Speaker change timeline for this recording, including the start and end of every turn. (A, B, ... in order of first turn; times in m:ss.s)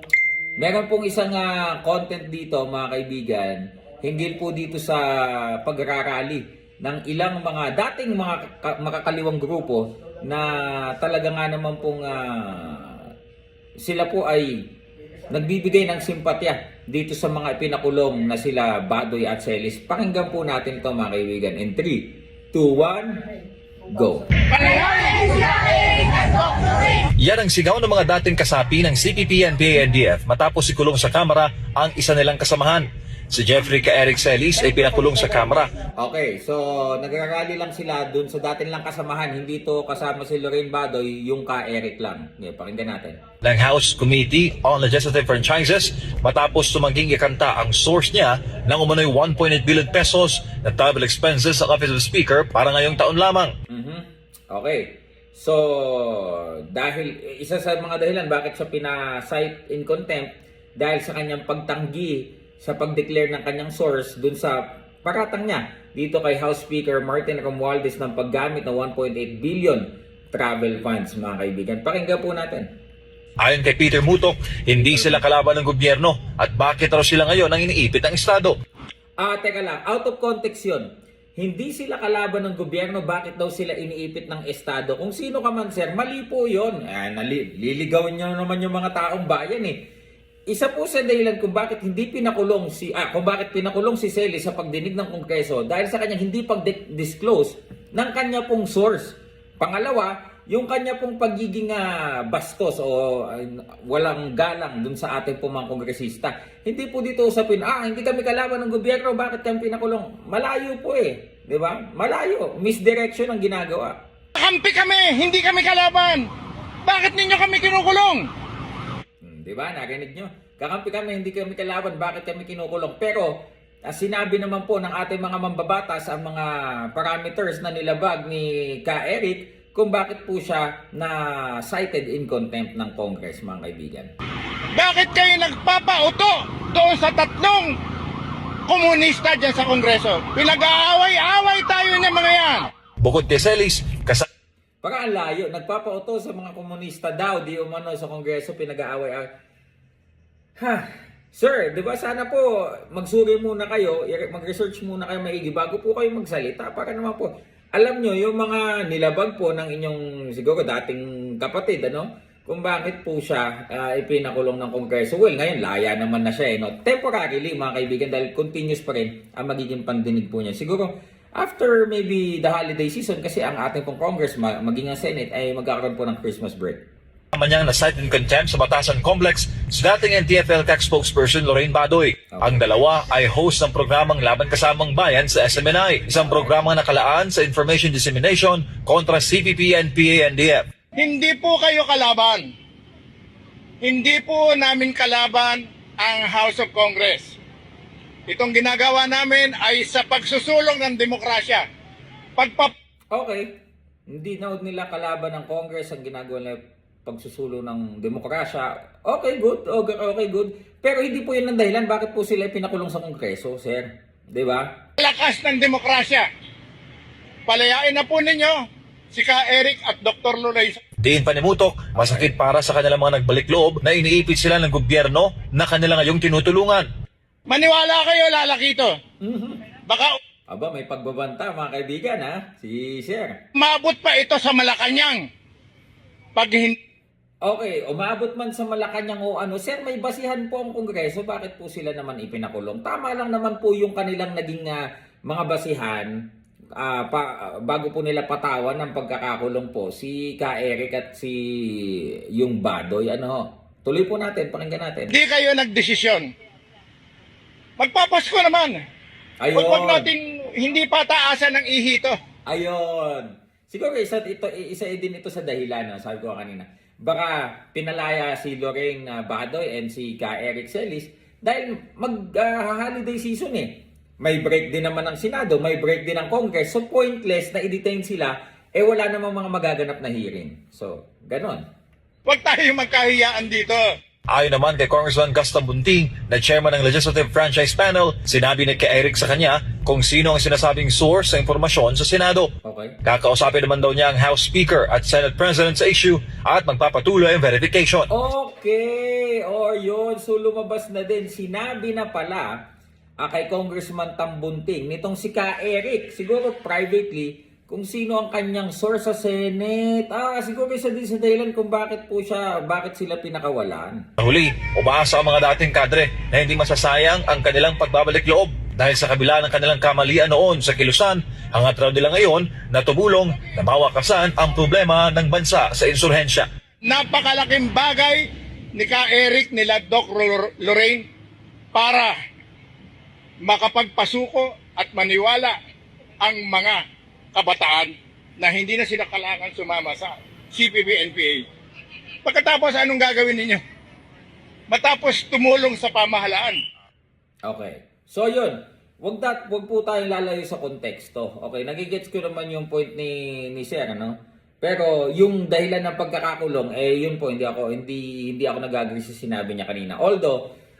0:00.6-0:13.1 A
0:13.8-0:14.5 A
0:15.3-0:23.2 A
0:23.9-0:24.4 A
0:24.6-0:25.4 B
0:27.2-0:35.7 C
0:35.9-0:43.2 A
0:43.4-0:53.5 C
0:53.7-1:12.7 A
1:13.4-1:18.6 C
1:19.2-1:29.8 A
1:30.5-1:54.0 A
1:54.4-1:56.3 B
1:56.8-1:58.2 B
1:59.2-2:03.3 A
2:03.8-2:14.1 A
2:14.7-2:17.7 B
2:18.7-2:22.7 B
2:23.0-2:24.2 C
2:24.8-2:29.3 A
2:30.6-2:56.8 A
2:57.3-3:10.6 C
3:02.3-3:02.6 A
3:11.0-3:12.5 B
3:13.8-3:17.4 B
3:18.3-3:21.6 B
3:22.4-3:22.7 B
3:23.1-3:23.5 A
3:24.1-3:34.7 A
3:35.0-3:36.3 B
3:37.5-3:38.6 B
3:39.1-3:40.8 B
3:41.0-3:46.9 C
3:42.0-3:42.3 A
3:47.5-3:48.9 B
3:49.2-3:49.6 A
3:49.9-3:50.2 B
3:50.5-3:53.3 A
3:53.5-3:55.2 B
3:56.4-3:56.8 B
3:57.4-4:06.1 A
4:06.8-4:15.1 A
4:15.1-4:16.3 B
4:17.8-4:18.8 B
4:19.4-4:20.1 A
4:19.5-4:22.2 B
4:22.5-4:41.6 A
4:42.2-4:43.8 B
4:44.3-4:52.5 C
4:52.6-4:53.0 A
4:53.0-4:58.1 C
4:58.1-5:02.5 A
5:03.2-5:14.0 A
5:14.2-5:26.5 C
5:26.8-5:28.2 B
5:28.8-5:31.0 B
5:31.7-5:32.1 B
5:33.4-5:35.5 B
5:36.2-5:36.8 B
5:37.3-5:41.4 B
5:42.2-5:43.6 B
5:44.7-5:46.6 B
5:47.4-6:00.4 A